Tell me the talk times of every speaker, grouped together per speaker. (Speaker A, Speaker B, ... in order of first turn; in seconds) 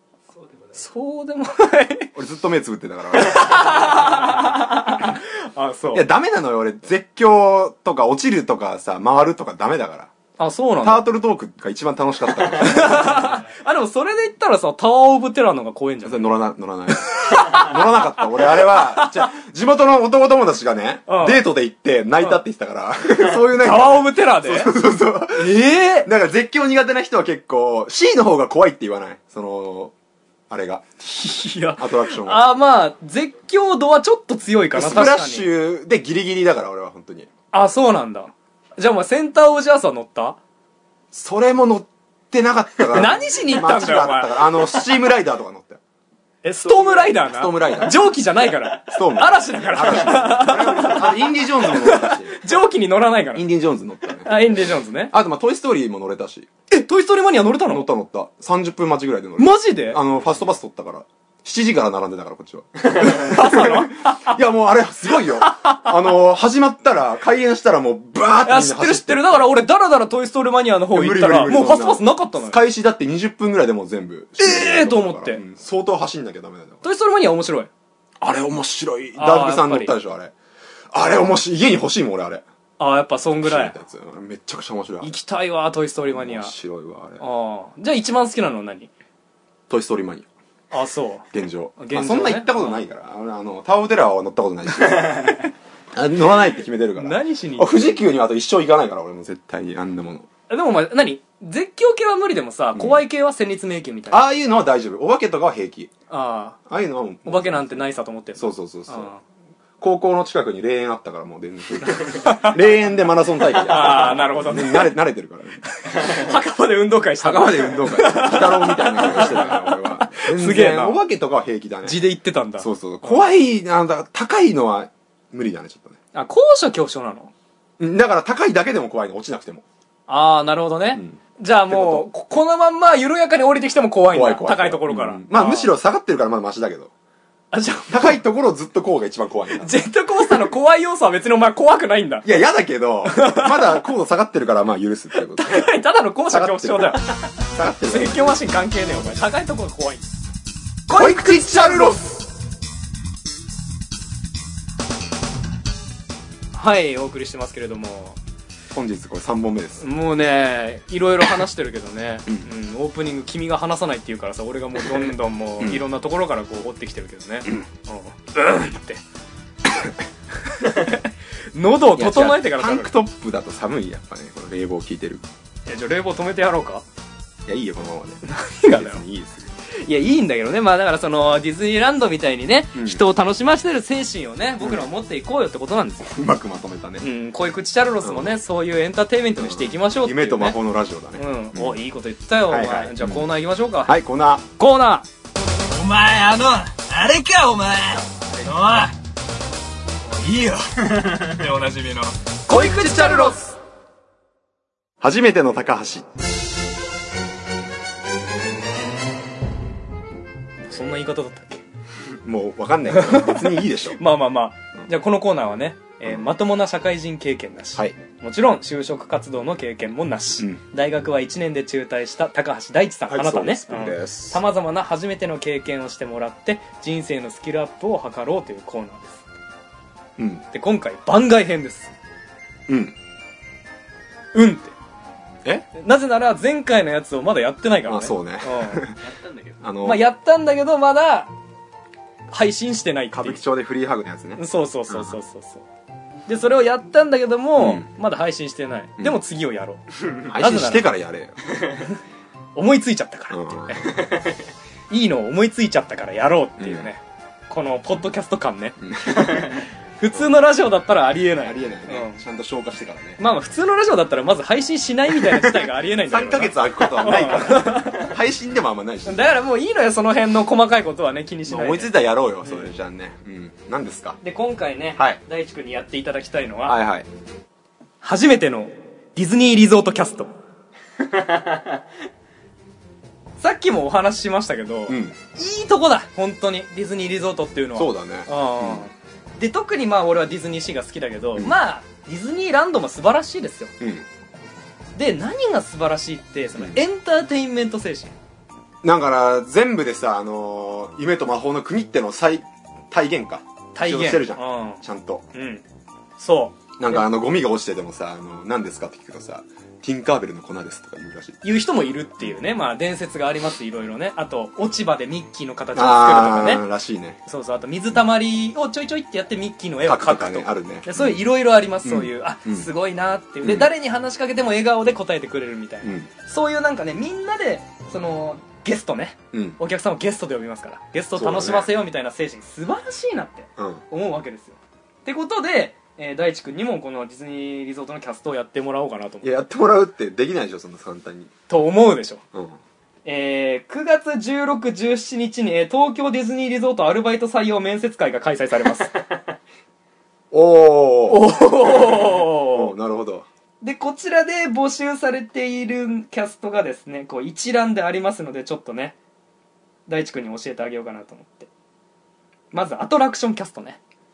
Speaker A: 0.3-0.8, 46.7-47.1, 239.0-239.6, 281.1-281.6
Speaker B: 0.8-2.1, 3.2-6.1, 10.4-11.1, 12.5-16.4, 17.0-19.3, 21.1-21.5, 23.2-24.7, 25.4-26.1, 31.1-35.5, 37.5-40.4, 42.9-44.9, 46.4-53.5, 54.2-55.1, 56.7-57.9, 59.4-60.0, 62.9-64.4, 65.4-65.9, 68.5-72.6, 74.4-75.4, 76.8-77.7, 79.2-79.9, 82.8-83.7, 85.0-86.5, 87.2-88.9, 90.7-92.8, 97.0-98.0, 100.5-104.3, 106.1-106.6, 107.3-109.2, 111.9-112.6, 113.6-114.9, 115.8-121.0, 121.8-123.2, 126.1-127.3, 130.1-135.7, 137.5-138.2, 139.5-142.3, 143.1-143.8, 145.2-147.2, 147.8-150.1, 150.9-152.1, 156.6-158.2, 159.8-169.0, 170.6-172.9, 175.7-176.8, 178.2-179.0, 179.8-186.1, 187.0-190.6, 191.2-193.9, 194.6-195.1, 195.7-198.9, 200.1-203.6, 210.7-211.6, 213.0-229.2, 230.5-231.9, 234.3-234.7, 235.7-238.9, 239.8-241.3, 242.3-243.4, 244.4-245.7, 246.3-250.9, 252.6-254.0, 254.9-262.2, 263.2-268.1, 269.1-271.9, 274.2-276.8, 278.0-280.3, 283.4-293.7, 295.0-298.1, 303.8-304.8, 305.3-305.6, 306.2-306.6, 311.4-316.6, 317.3-339.3, 341.5-342.2, 343.1-349.0, 351.1-352.7, 353.6-359.0, 359.9-361.5, 362.5-363.8
Speaker C: 2.1-4.3, 5.9-10.1, 10.8-13.4, 16.1-29.9, 30.5-32.5, 34.7-37.3, 41.1-45.8, 47.0-48.1, 48.9-52.4, 53.4-54.4, 55.1-56.5, 57.7-69.4, 70.9-76.8, 78.2-80.3, 80.9-82.4, 83.4-85.2, 86.0-87.2, 89.7-90.3, 91.3-100.3, 102.7-103.0, 104.1-105.9, 106.7-109.1, 109.8-116.3, 117.2-122.0, 122.6-126.0, 127.8-129.7, 131.0-132.1, 134.1-136.9, 137.9-139.7, 142.2-145.7, 146.3-148.4, 150.9-152.2, 158.7-159.8, 164.9-165.8, 172.0-175.2, 177.5-179.5, 182.7-183.0, 184.6-184.9, 186.1-187.1, 188.0-188.4, 189.4-191.8, 192.5-193.3, 193.8-194.4, 202.5-203.4, 205.0-206.1, 212.2-214.0, 223.1-224.4, 230.2-230.4, 232.7-232.9, 237.9-239.0, 239.6-240.1, 243.1-245.2, 247.6-247.9, 250.3-251.4, 253.3-254.2, 256.6-256.9, 258.8-259.6, 261.4-263.2, 265.3-269.3, 271.5-274.2, 276.7-277.1, 284.9-285.2, 287.8-288.9, 293.8-294.1, 298.8-305.3, 306.8-311.4, 315.8-317.2, 319.9-321.2, 321.8-322.7, 323.4-323.7, 325.8-326.1, 329.3-329.6, 331.1-331.8, 333.6-333.8, 339.2-341.3, 342.3-342.6, 350.3-353.3